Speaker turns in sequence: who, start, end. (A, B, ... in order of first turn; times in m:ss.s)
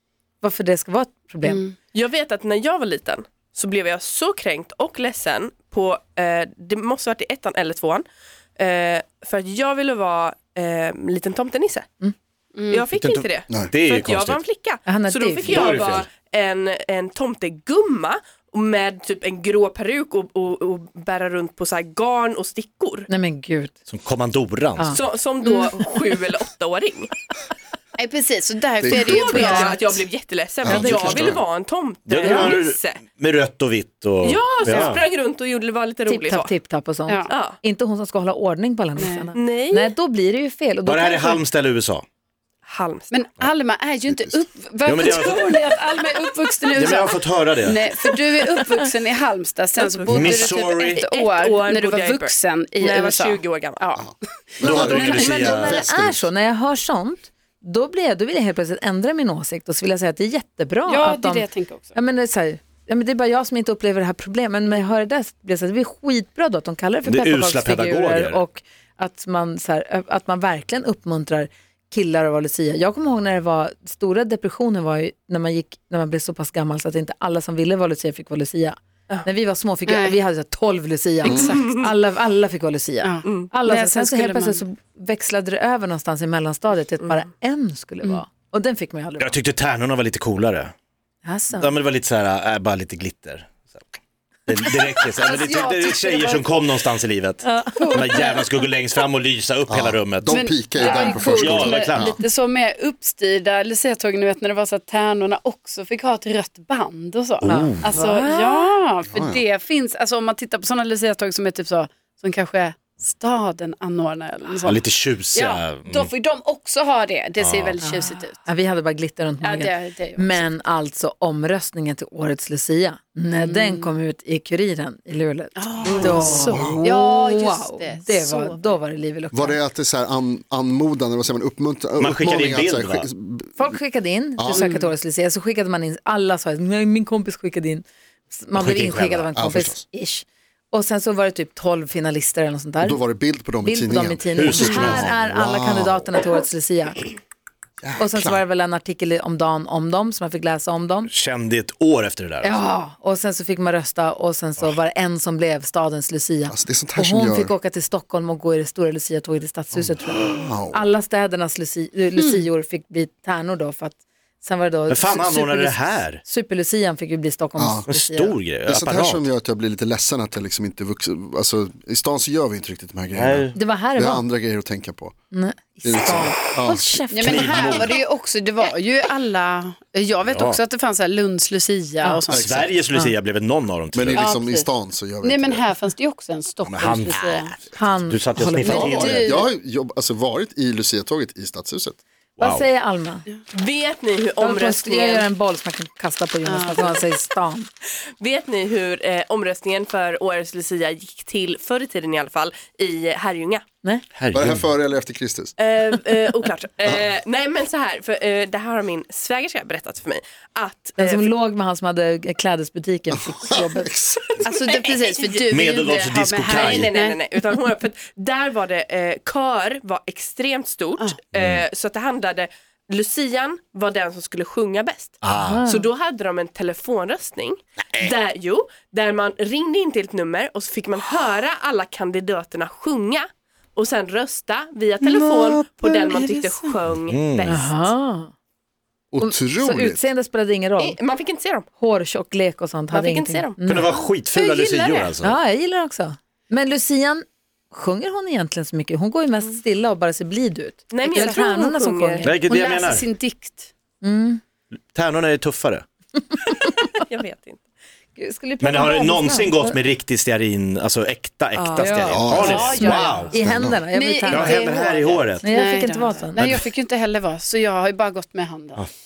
0:00.4-0:01.6 A
0:01.4-0:01.7 B
0:01.9-0:08.0 C
0:08.6-0:11.8 C
0:12.5-0:12.8 B
0:12.7-0:23.1 C
0:12.9-0:14.4 D
0:14.8-0:15.7 A
0:15.4-0:16.1 D
0:23.1-0:23.8 A
0:23.9-0:25.0 D
0:24.9-0:27.1 C
0:25.4-0:25.7 B
0:28.0-0:30.0 B
0:28.8-0:29.8 E
0:28.9-0:33.0 C
0:30.6-0:31.4 E
0:32.1-0:35.0 D
0:34.2-0:36.5 C
0:34.6-0:35.0 B
0:36.0-0:41.4 A
0:37.3-0:37.6 C
0:39.0-0:39.3 B
0:39.3-0:39.9 C
0:40.8-0:42.0 D
0:42.7-0:43.1 C
0:43.1-0:55.8 B
0:44.1-0:44.4 E
0:44.8-0:45.5 D
0:46.7-0:47.8 D
0:49.8-0:53.8 C
0:50.1-0:51.0 D
0:54.6-0:55.8 E
0:54.6-0:56.1 D
0:55.2-1:29.3 A
1:00.9-1:02.0 B
1:07.0-1:08.4 D
1:19.9-1:20.2 B
1:21.2-1:21.8 B
1:21.2-1:21.5 E
1:23.0-1:24.6 B
1:29.2-1:30.7 D
1:31.2-1:31.7 A
1:31.6-1:33.8 D
1:34.5-1:40.4 D
1:35.3-1:36.4 B
1:37.4-1:38.2 A
1:37.7-1:38.3 B
1:39.7-1:42.2 E
1:40.3-1:58.4 B
1:40.8-1:41.5 A
1:41.3-1:42.0 D
1:47.4-1:47.9 E
1:47.4-1:48.7 A
1:49.1-1:49.4 E
1:54.6-1:56.1 D
1:57.4-1:57.8 D
1:57.8-2:09.6 A
1:59.4-2:00.4 B
2:03.4-2:03.9 B
2:05.6-2:08.7 B
2:06.0-2:06.8 E
2:09.3-2:13.8 E
2:12.0-2:13.1 D
2:13.6-2:23.0 A
2:14.4-2:14.6 E
2:14.5-2:14.9 B
2:18.5-2:19.3 D
2:19.3-2:19.8 E
2:22.8-2:26.0 E
2:23.6-2:27.1 A
2:24.3-2:25.1 D
2:27.8-2:28.4 E
2:28.0-2:31.1 A
2:31.1-2:32.6 D
2:32.4-2:48.4 A
2:36.5-2:37.5 E
2:39.7-2:40.8 E
2:44.9-2:46.2 D
2:47.6-2:47.9 E
2:47.9-2:49.2 D
2:48.6-2:55.1 E
2:53.1-2:53.6 D
2:53.5-2:54.2 A
2:55.3-2:57.7 A
2:55.8-2:57.6 E
2:57.1-3:02.7 B
2:57.3-2:58.0 D
3:00.2-3:00.6 D
3:02.3-3:02.6 E
3:02.4-3:04.4 D
3:03.9-3:05.6 E
3:04.2-3:04.7 B
3:05.2-3:07.5 B
3:06.6-3:09.2 D
3:07.8-3:09.1 A
3:08.6-3:09.5 B
3:08.6-3:12.0 E
3:12.4-3:12.7 D
3:12.4-3:13.2 A
3:13.5-3:15.3 C
3:14.4-3:17.7 A
3:16.4-3:17.0 B
3:18.2-3:23.6 C
3:24.1-3:24.6 D
3:24.3-3:25.5 E
3:25.6-3:31.3 C
3:31.0-3:33.9 A
3:33.1-3:34.4 E
3:34.4-3:37.2 B
3:34.6-3:57.9 C
3:35.5-3:36.9 D
3:41.3-3:41.6 D
3:45.2-3:45.6 D
3:45.4-3:45.9 A
3:55.0-3:56.7 B
3:57.0-3:57.6 D
3:57.4-3:58.3 A
3:59.1-4:00.1 E
3:59.2-4:01.0 A
4:00.8-4:01.7 C
4:01.8-4:03.9 A
4:02.9-4:03.6 C
4:03.6-4:05.4 D
4:04.3-4:05.1 B
4:05.2-4:12.4 A
4:10.9-4:12.3 C
4:11.2-4:11.4 B
4:12.2-4:13.1 D
4:12.4-4:13.7 B
4:14.0-4:14.4 A
4:14.9-4:15.8 D
4:16.7-4:17.6 C
4:18.2-4:19.8 A
4:18.6-4:23.3 D
4:21.6-4:22.7 C
4:21.8-4:24.6 A
4:22.1-4:23.8 E
4:22.3-4:23.3 B
4:23.9-4:28.8 B
4:24.3-4:25.4 D
4:25.4-4:26.4 A
4:26.3-4:26.6 D